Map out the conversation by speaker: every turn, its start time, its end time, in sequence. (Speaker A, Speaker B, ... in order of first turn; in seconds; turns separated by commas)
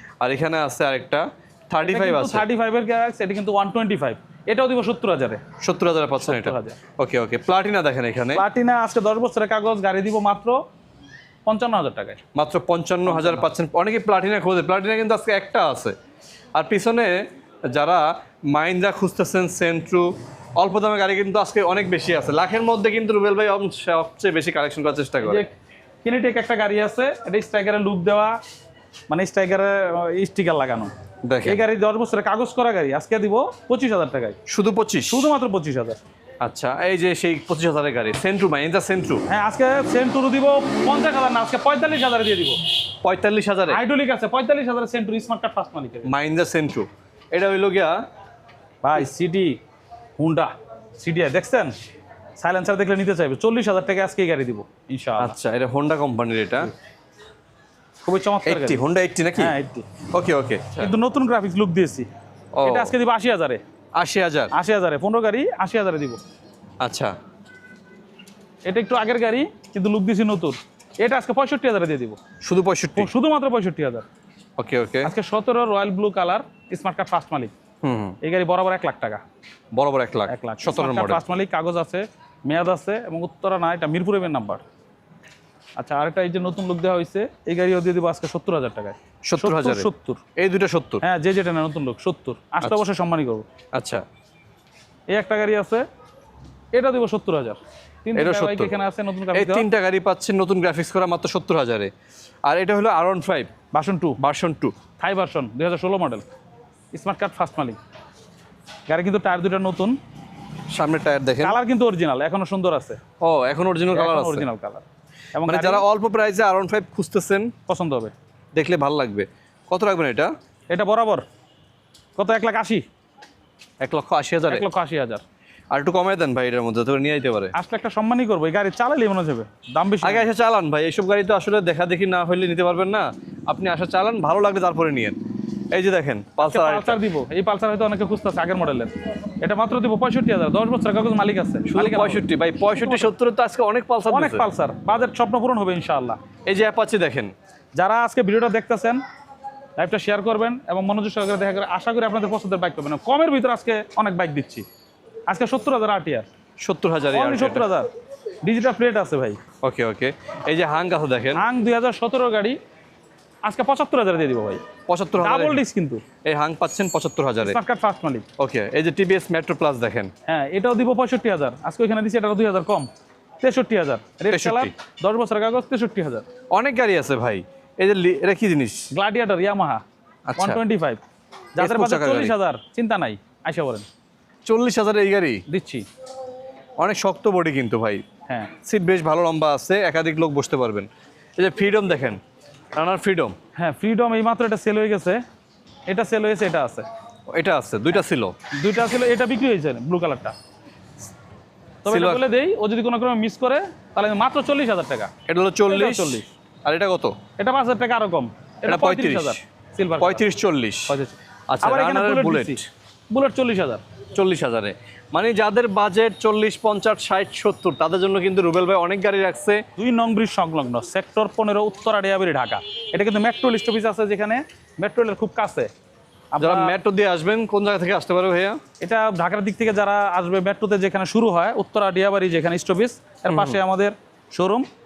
Speaker A: 0.2-2.4, Speaker B: 1.8-5.4, Speaker A: 5.6-8.4, Speaker B: 6.2-6.8, Speaker B: 8.3-10.6, Speaker B: 11.4-12.2, Speaker A: 12.3-15.9, Speaker B: 13.1-13.4, Speaker A: 16.6-17.1, Speaker A: 17.7-25.4, Speaker B: 25.2-25.5, Speaker B: 26.0-28.4, Speaker B: 29.1-30.9, Speaker A: 31.2-31.6, Speaker B: 31.4-34.4, Speaker A: 34.5-35.3, Speaker B: 35.1-36.0, Speaker A: 36.4-39.2, Speaker B: 39.3-42.6, Speaker A: 43.0-43.8, Speaker B: 43.7-46.1, Speaker A: 46.0-48.0, Speaker B: 48.8-49.6, Speaker B: 50.2-51.7, Speaker B: 52.4-55.4, Speaker A: 55.2-56.7, Speaker B: 58.0-58.8, Speaker A: 58.5-59.5, Speaker B: 59.4-59.9, Speaker A: 60.1-60.9, Speaker B: 60.8-62.1, Speaker A: 62.5-62.9, Speaker B: 62.6-63.6, Speaker A: 64.0-64.5, Speaker B: 64.5-66.2, Speaker A: 66.8-67.1, Speaker B: 68.7-72.2, Speaker A: 72.4-73.1, Speaker B: 72.9-74.0, Speaker A: 74.6-75.1, Speaker B: 75.0-77.5, Speaker A: 77.8-78.2, Speaker B: 78.2-79.2, Speaker A: 79.7-81.2, Speaker B: 80.3-84.6, Speaker B: 85.8-90.2, Speaker A: 89.2-91.0, Speaker B: 91.0-93.5, Speaker A: 93.7-94.0, Speaker B: 95.1-95.8, Speaker B: 96.7-99.7, Speaker A: 98.1-98.7, Speaker A: 99.3-101.9, Speaker A: 102.5-103.5, Speaker B: 103.7-104.2, Speaker A: 104.2-104.7, Speaker B: 105.0-106.2, Speaker B: 106.9-107.8, Speaker B: 108.9-110.0, Speaker A: 110.7-111.6, Speaker B: 111.4-113.0, Speaker A: 113.2-114.5, Speaker B: 113.9-114.8, Speaker B: 115.3-115.8, Speaker A: 115.5-117.5, Speaker B: 117.7-118.1, Speaker A: 118.5-120.3, Speaker B: 120.7-121.2, Speaker B: 122.2-122.8, Speaker A: 123.8-124.6, Speaker B: 124.5-125.2, Speaker A: 125.7-127.5, Speaker B: 127.5-130.3, Speaker A: 130.0-135.2, Speaker A: 135.7-137.0, Speaker B: 136.4-143.1, Speaker A: 141.7-144.4, Speaker B: 144.1-146.2, Speaker A: 146.5-147.3, Speaker B: 147.8-149.0, Speaker B: 149.8-154.7, Speaker B: 155.3-156.3, Speaker A: 156.6-157.7, Speaker B: 157.1-157.9, Speaker B: 158.4-159.4, Speaker A: 159.6-161.4, Speaker B: 161.3-162.6, Speaker B: 163.4-164.6, Speaker A: 164.9-165.6, Speaker B: 165.2-166.0, Speaker A: 166.2-167.6, Speaker B: 167.4-168.2, Speaker A: 168.4-170.1, Speaker B: 170.3-172.9, Speaker B: 173.4-176.3, Speaker A: 174.3-174.7, Speaker A: 176.5-178.9, Speaker B: 178.9-179.8, Speaker A: 180.3-180.6, Speaker B: 180.4-181.0, Speaker B: 181.6-183.9, Speaker A: 181.6-182.3, Speaker A: 184.4-185.4, Speaker B: 185.5-185.8, Speaker A: 186.8-188.0, Speaker A: 188.6-192.2, Speaker A: 192.7-193.3, Speaker B: 193.6-195.2, Speaker B: 195.9-196.8, Speaker A: 197.3-198.3, Speaker B: 198.6-200.3, Speaker B: 201.8-205.1, Speaker A: 201.9-202.2, Speaker A: 205.3-207.1, Speaker B: 205.7-206.3, Speaker B: 207.4-210.2, Speaker A: 208.7-209.4, Speaker A: 210.0-210.9, Speaker B: 210.9-213.8, Speaker A: 211.5-212.6, Speaker A: 214.1-219.6, Speaker B: 219.8-225.7, Speaker B: 226.3-226.7, Speaker A: 226.4-228.6, Speaker B: 228.8-234.7, Speaker A: 233.3-233.6